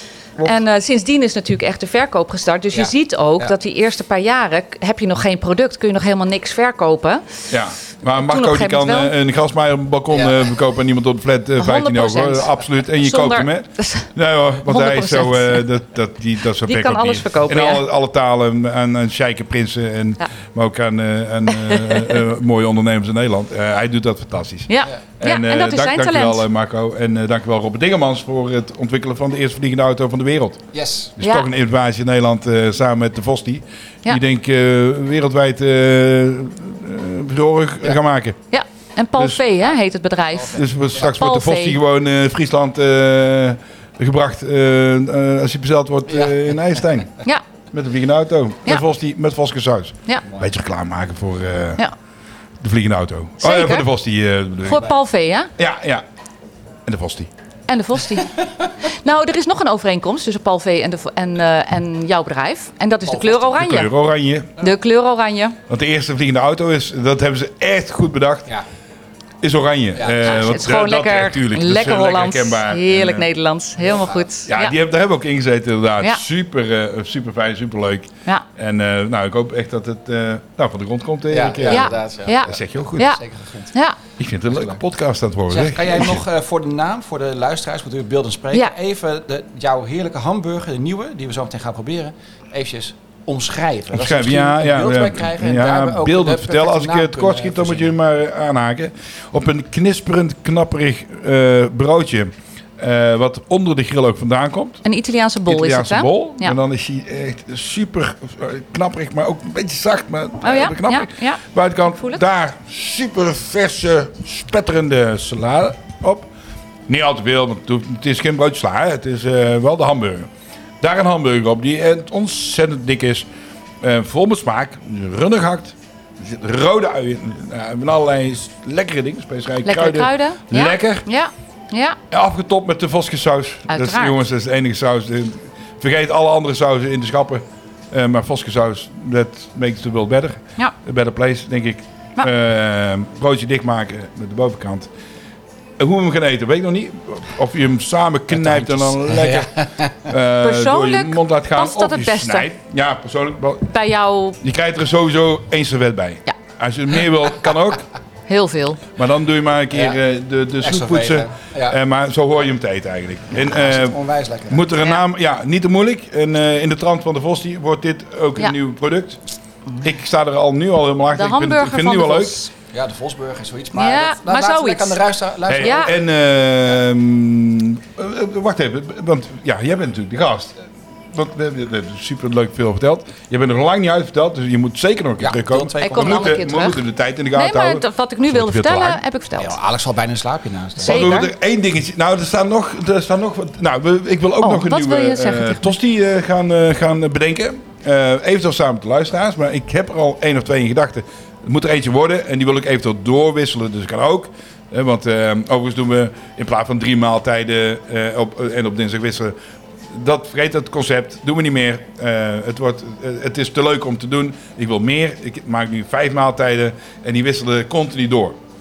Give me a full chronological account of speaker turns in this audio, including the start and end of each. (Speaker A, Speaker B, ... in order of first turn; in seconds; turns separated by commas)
Speaker A: 0.4-7.2, Speaker B: 2.7-3.5, Speaker C: 7.5-38.4, Speaker A: 8.1-9.1, Speaker B: 10.1-10.4, Speaker A: 11.6-14.1, Speaker A: 14.7-15.6, Speaker A: 16.6-17.8, Speaker A: 21.6-22.2, Speaker A: 24.7-26.4, Speaker B: 30.7-31.1, Speaker A: 31.2-31.5, Speaker A: 38.5-41.8, Speaker C: 39.2-39.4, Speaker B: 40.3-41.1, Speaker C: 40.5-51.8, Speaker B: 46.1-46.4, Speaker C: 52.6-54.9, Speaker A: 53.4-53.9, Speaker A: 54.6-55.5, Speaker C: 55.6-56.0, Speaker C: 56.9-57.3, Speaker A: 57.7-63.9, Speaker B: 63.0-63.7, Speaker C: 63.6-64.7, Speaker A: 64.6-65.6, Speaker C: 65.7-68.5, Speaker C: 69.4-73.3, Speaker B: 70.0-70.3, Speaker A: 70.2-74.7, Speaker B: 73.8-74.3, Speaker C: 74.5-83.2, Speaker B: 81.3-83.7, Speaker A: 81.6-83.2, Speaker C: 84.2-86.2, Speaker B: 84.5-84.8, Speaker B: 85.5-97.9, Speaker C: 93.9-104.8, Speaker A: 104.8-106.6, Speaker C: 105.5-116.3, Speaker A: 110.4-112.2, Speaker C: 116.9-120.3, Speaker C: 120.8-123.3, Speaker C: 123.8-131.1, Speaker A: 129.6-132.0, Speaker C: 132.1-144.9, Speaker A: 133.7-134.2, Speaker C: 145.8-149.5, Speaker B: 148.3-150.1, Speaker C: 150.1-153.7, Speaker A: 150.4-152.5, Speaker A: 153.7-154.4, Speaker C: 154.4-157.9, Speaker A: 158.3-158.8, Speaker C: 159.0-164.0, Speaker B: 159.7-160.0, Speaker B: 160.6-161.8, Speaker B: 163.4-164.7, Speaker C: 164.5-169.2, Speaker C: 169.8-172.4, Speaker A: 171.1-172.5, Speaker B: 172.7-176.0, Speaker A: 173.7-175.0, Speaker C: 175.5-189.0, Speaker A: 175.6-175.9, Speaker B: 185.2-186.4, Speaker A: 185.8-186.8, Speaker A: 187.3-189.6, Speaker B: 189.4-191.1, Speaker A: 190.8-191.3, Speaker C: 190.8-209.3, Speaker A: 194.4-195.7, Speaker C: 209.9-218.4